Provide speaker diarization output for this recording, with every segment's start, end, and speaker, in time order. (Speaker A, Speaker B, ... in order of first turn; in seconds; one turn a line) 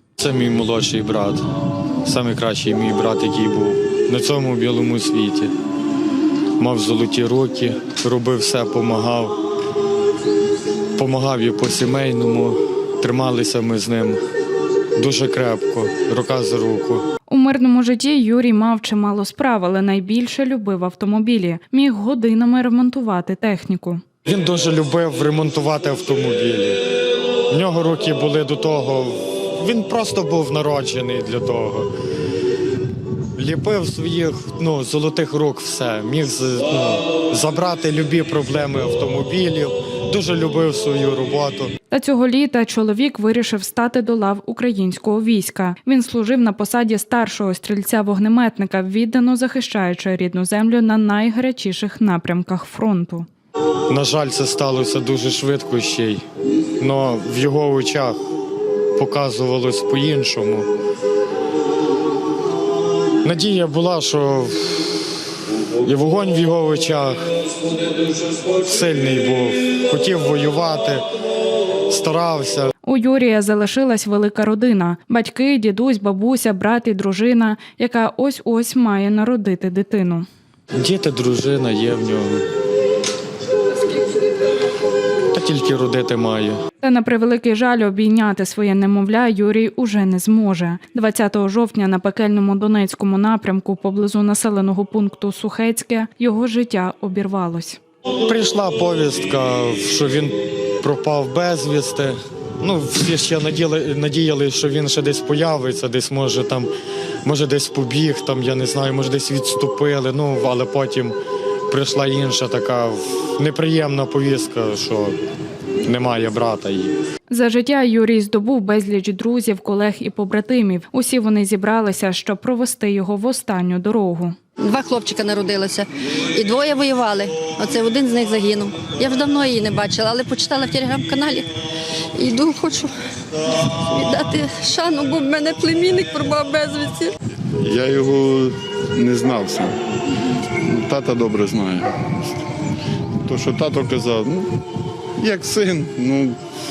Speaker A: 0.2-1.4
Speaker A: 2.0-5.5
Speaker A: 6.6-9.4
Speaker A: 10.9-14.2
Speaker A: 14.9-17.1
Speaker B: 17.3-24.0
Speaker A: 24.2-26.8
Speaker A: 27.5-31.9
Speaker A: 33.4-41.7
Speaker B: 41.9-53.3
Speaker A: 53.9-56.2
Speaker A: 56.8-58.2
Speaker A: 59.0-60.7
Speaker A: 63.2-65.0
Speaker A: 65.8-67.4
Speaker A: 68.3-71.0
Speaker A: 71.9-72.7
Speaker B: 72.8-80.2
Speaker A: 80.8-82.5
Speaker A: 85.3-86.6
Speaker B: 86.8-97.8
Speaker A: 98.2-106.7
Speaker A: 107.2-111.2
Speaker A: 111.7-115.2
Speaker A: 115.8-116.9
Speaker B: 117.3-124.3
Speaker C: 124.6-131.5
Speaker C: 132.1-132.9
Speaker C: 133.5-137.1
Speaker D: 137.6-139.7
Speaker D: 140.6-142.3
Speaker D: 143.2-144.6
Speaker D: 145.2-146.3